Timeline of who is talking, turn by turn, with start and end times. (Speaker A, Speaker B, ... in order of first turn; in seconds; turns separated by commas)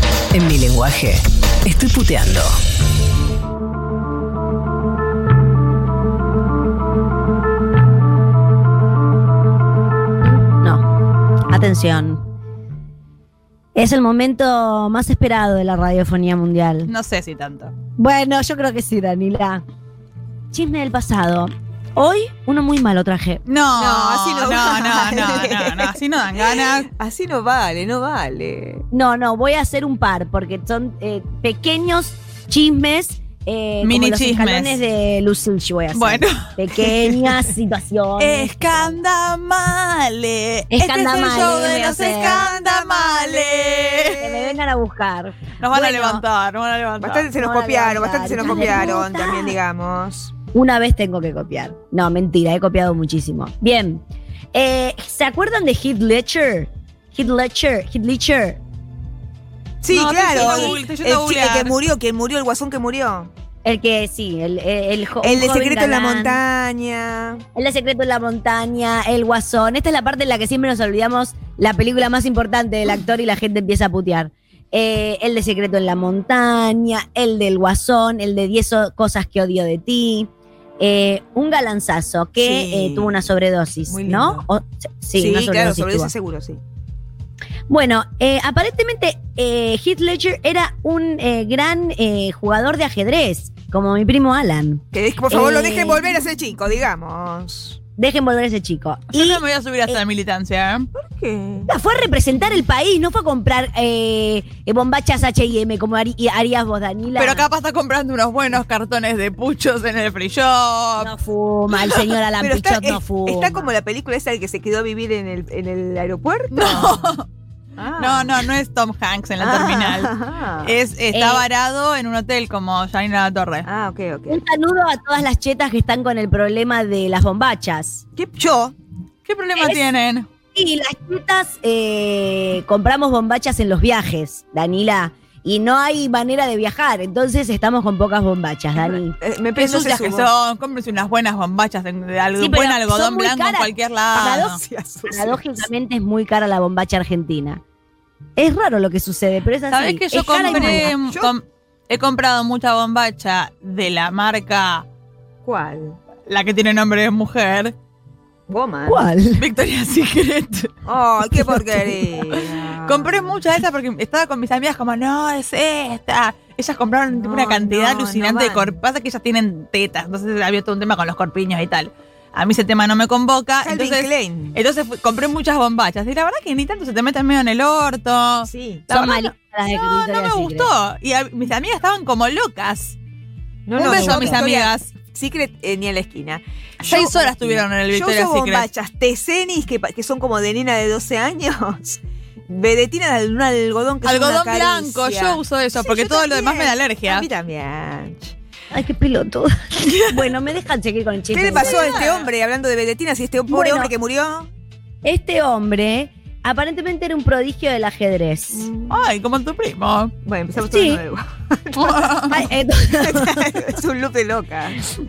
Speaker A: 0.3-2.5, Speaker B: 10.6-10.8, Speaker B: 11.5-12.2, Speaker B: 13.8-16.9, Speaker C: 16.9-17.7, Speaker B: 18.0-19.6, Speaker B: 20.5-23.4, Speaker C: 23.5-26.9, Speaker D: 23.8-28.9, Speaker B: 28.9-39.0, Speaker C: 33.8-34.8, Speaker C: 35.9-37.4, Speaker C: 38.2-44.2, Speaker B: 40.7-42.5, Speaker D: 41.8-44.6, Speaker B: 44.1-46.2, Speaker C: 45.6-47.3, Speaker D: 47.0-50.3, Speaker B: 47.4-49.6, Speaker B: 50.5-54.0, Speaker B: 54.5-58.6, Speaker D: 59.8-63.3, Speaker C: 59.9-61.8, Speaker B: 60.3-60.8, Speaker B: 63.6-66.4, Speaker D: 65.2-67.4, Speaker B: 67.5-86.1, Speaker D: 82.4-83.3, Speaker D: 83.9-84.5, Speaker D: 85.2-86.6, Speaker B: 87.7-96.1, Speaker D: 94.9-97.8, Speaker B: 98.0-100.0, Speaker C: 99.1-100.9, Speaker D: 100.9-101.7, Speaker B: 101.7-107.5, Speaker C: 107.1-111.1, Speaker B: 111.0-113.7, Speaker C: 111.7-112.0, Speaker D: 112.4-117.1, Speaker C: 116.5-117.3, Speaker D: 117.8-118.5, Speaker C: 118.0-120.1, Speaker D: 119.4-120.8, Speaker C: 120.6-123.7, Speaker B: 121.1-121.5, Speaker D: 123.6-124.4, Speaker B: 124.3-128.0, Speaker D: 128.2-128.8, Speaker C: 129.2-130.3, Speaker B: 129.6-129.8, Speaker B: 130.6-139.2, Speaker D: 138.8-140.3, Speaker C: 139.6-144.6, Speaker B: 142.4-147.6, Speaker D: 144.1-145.7, Speaker B: 148.4-150.9, Speaker C: 149.7-154.9, Speaker D: 150.4-151.3, Speaker D: 155.4-156.0, Speaker C: 156.3-157.8, Speaker D: 158.5-159.1, Speaker B: 158.9-159.4, Speaker C: 159.4-160.7, Speaker D: 160.8-163.4, Speaker C: 162.2-183.0, Speaker D: 167.2-168.8, Speaker D: 173.6-174.6, Speaker D: 178.5-178.8, Speaker B: 178.9-180.7, Speaker D: 183.7-198.3, Speaker B: 183.8-184.4, Speaker C: 183.8-184.9, Speaker C: 186.8-188.7, Speaker C: 194.0-197.3, Speaker B: 198.7-202.0, Speaker C: 199.8-200.4, Speaker D: 201.3-204.5, Speaker C: 201.5-202.3, Speaker B: 203.5-203.9, Speaker B: 205.0-208.7, Speaker D: 208.5-209.0, Speaker C: 208.9-210.1, Speaker D: 210.2-212.0, Speaker B: 210.7-211.0, Speaker C: 211.8-212.3, Speaker B: 212.3-213.7, Speaker D: 212.9-214.9